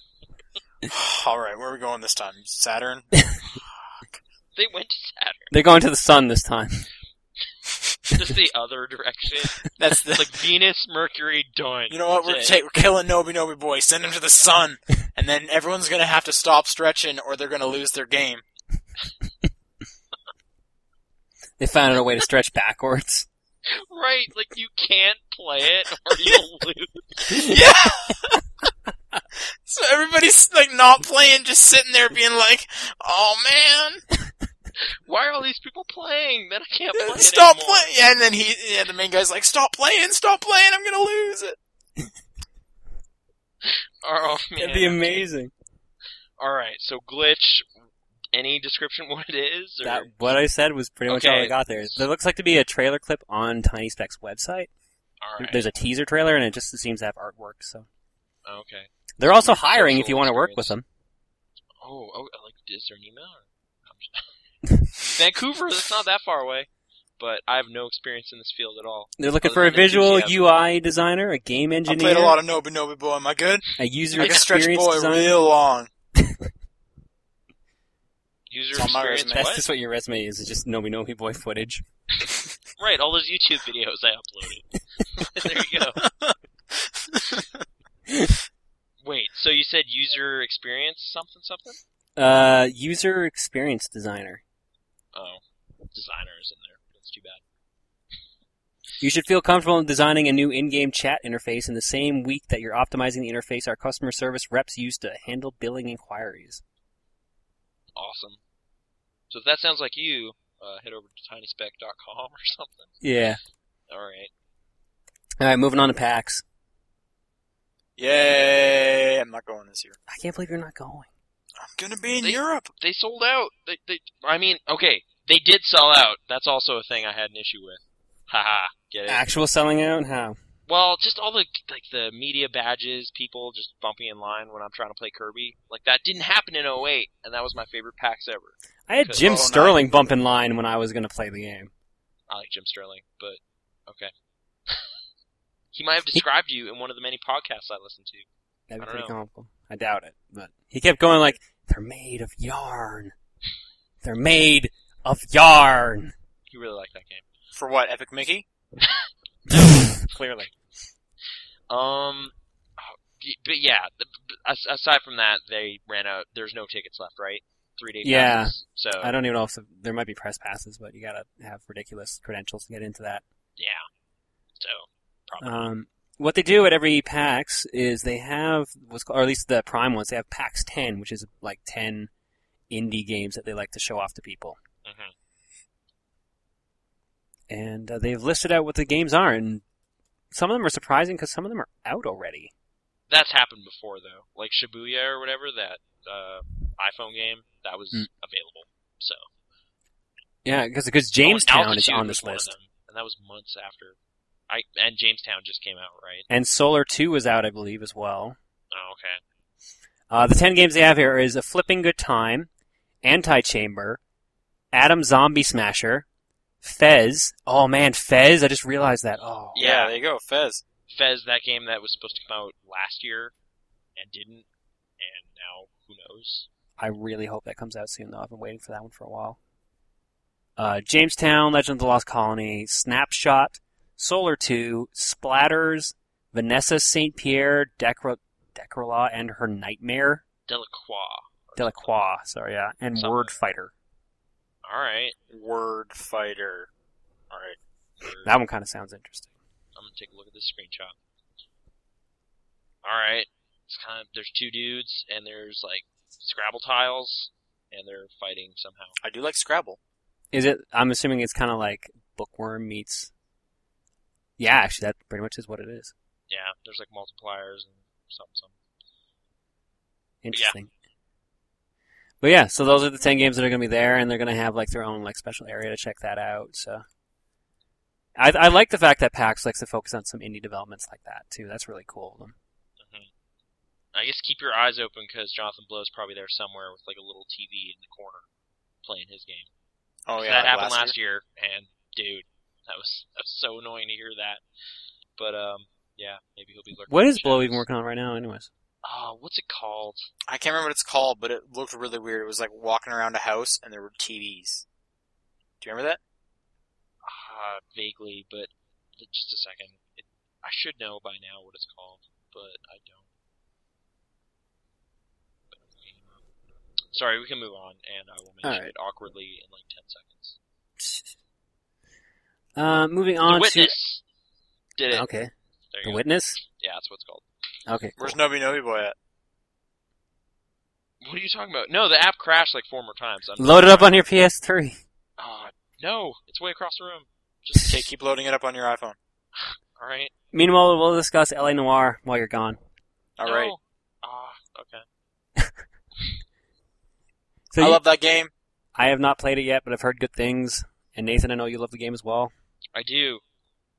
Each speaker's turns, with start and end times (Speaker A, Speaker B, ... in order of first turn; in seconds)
Speaker A: 0.9-3.2, 9.7-10.4, 11.9-18.4, 27.3-28.4, 29.6-34.0, 36.9-41.6, 71.9-75.9, 78.7-79.4, 86.0-87.4, 118.0-120.0, 121.6-122.7, 139.2-139.8, 157.5-158.4, 219.6-220.6, 245.3-246.7, 247.3-247.6, 259.0-259.8, 290.1-290.9, 300.3-304.6, 305.6-306.0, 328.0-328.9, 337.6-339.0, 343.2-343.5, 347.6-348.3
Speaker B: 4.5-5.5, 8.1-12.6, 23.7-27.2, 35.0-37.9, 43.6-45.3, 46.4-47.6, 48.3-50.1, 51.1-52.0, 55.2-55.6, 58.5-60.7, 61.8-64.3, 65.0-70.5, 74.2-74.4, 78.5-79.6, 82.8-86.0, 89.0-91.8, 95.1-97.4, 108.0-108.4, 109.3-112.9, 113.9-114.3, 122.2-129.2, 130.7-139.2, 142.3-144.1, 145.7-148.2, 148.8-149.1, 156.5-157.2, 158.8-160.5, 161.7-169.1, 173.6-173.8, 174.6-175.7, 184.8-185.1, 193.1-199.2, 201.2-204.0, 204.5-206.2, 208.7-209.2, 219.5-219.9, 220.9-223.3, 223.9-224.5, 225.0-226.5, 240.5-241.9, 242.9-243.4, 244.6-245.2, 248.0-248.3, 249.8-250.9, 252.8-259.0, 266.3-268.5, 282.8-283.1, 283.9-288.2, 288.8-289.5, 290.2-294.4, 295.2-297.6, 298.8-300.1, 307.0-313.1, 315.5-316.0, 316.9-320.4, 323.2-324.0, 324.8-325.1, 325.7-327.2, 331.0-334.0, 335.2-337.8, 339.4-340.1, 343.2-344.8, 352.7-353.2
Speaker C: 5.5-6.9, 21.6-23.3, 27.3-27.7, 44.6-45.5, 49.8-54.7, 55.4-57.9, 59.2-60.8, 69.2-72.4, 73.8-75.3, 76.2-76.5, 79.3-81.8, 92.2-94.4, 99.0-106.6, 113.0-113.4, 115.4-116.4, 120.1-121.1, 129.1-130.4, 138.9-141.7, 148.7-153.1, 154.0-156.1, 159.6-159.9, 168.0-173.2, 175.4-182.1, 182.7-184.6, 187.5-189.6, 190.3-192.5, 200.4-202.5, 206.3-208.4, 210.1-212.5, 213.0-214.0, 214.7-216.1, 216.6-219.7, 226.8-229.4, 230.6-240.2, 241.6-243.7, 248.2-249.3, 260.3-263.1, 264.4-265.9, 270.2-270.7, 272.2-276.8, 278.2-282.4, 296.9-298.5, 318.4-318.7, 320.8-321.1, 322.6-323.8, 324.9-325.3, 325.8-326.4, 327.7-328.2, 333.4-334.8, 340.3-342.6, 347.5-347.8, 348.7-352.3